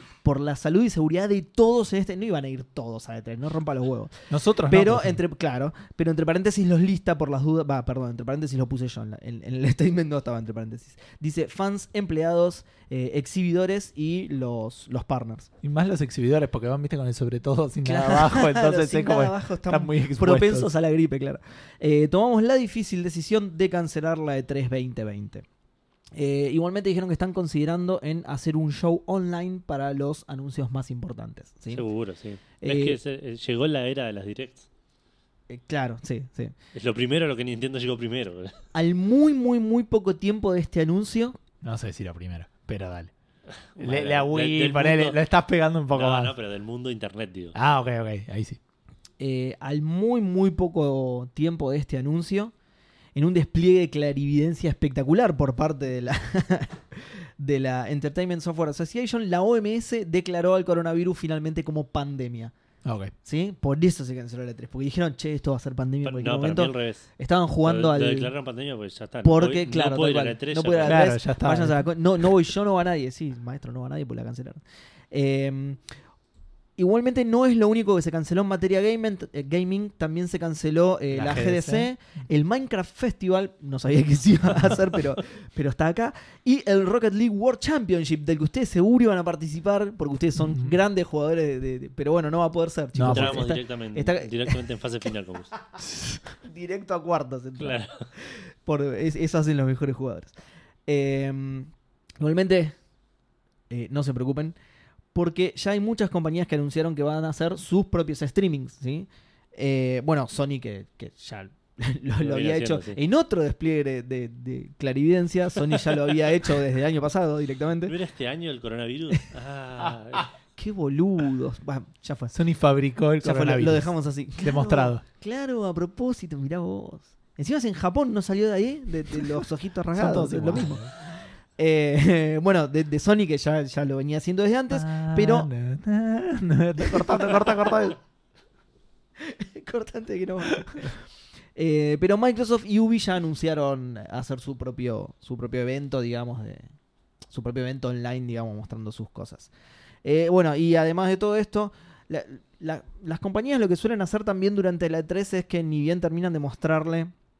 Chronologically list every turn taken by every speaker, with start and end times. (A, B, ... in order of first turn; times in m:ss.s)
0:00.2-0:15.5 A
0:04.3-0:05.2 B
0:15.6-0:20.7 B
0:17.8-0:25.5 A
0:26.1-0:31.8 A
0:31.7-0:34.6 C
0:32.6-0:33.0 A
0:35.5-0:36.5 A
0:36.7-0:38.5 C
0:38.7-0:41.4 A
0:41.6-0:43.1 B
0:43.7-0:45.2 C
0:43.8-0:46.3 B
0:45.9-0:47.6 C
0:47.5-0:48.6 B
0:49.2-0:52.5 A
0:53.2-1:02.5 A
1:02.8-1:03.1 B
1:03.2-1:08.3 A
1:06.0-1:11.0 C
1:09.2-1:15.8 A
1:10.8-1:11.9 B
1:16.8-1:34.6 A
1:21.1-1:21.9 B
1:30.4-1:30.7 B
1:32.9-1:33.4 B
1:33.0-1:35.6 C
1:36.3-1:40.4 A
1:37.6-1:38.1 C
1:40.9-1:42.8 A
1:43.7-1:44.6 A
1:45.1-1:58.0 A
1:52.2-1:53.0 C
1:57.9-2:00.3 C
2:00.6-2:02.4 A
2:02.3-2:05.0 B
2:03.2-2:15.5 A
2:09.9-2:10.9 B
2:14.7-2:18.0 B
2:16.9-2:17.3 A
2:19.2-2:26.7 A
2:27.3-2:29.5 A
2:30.0-2:37.1 A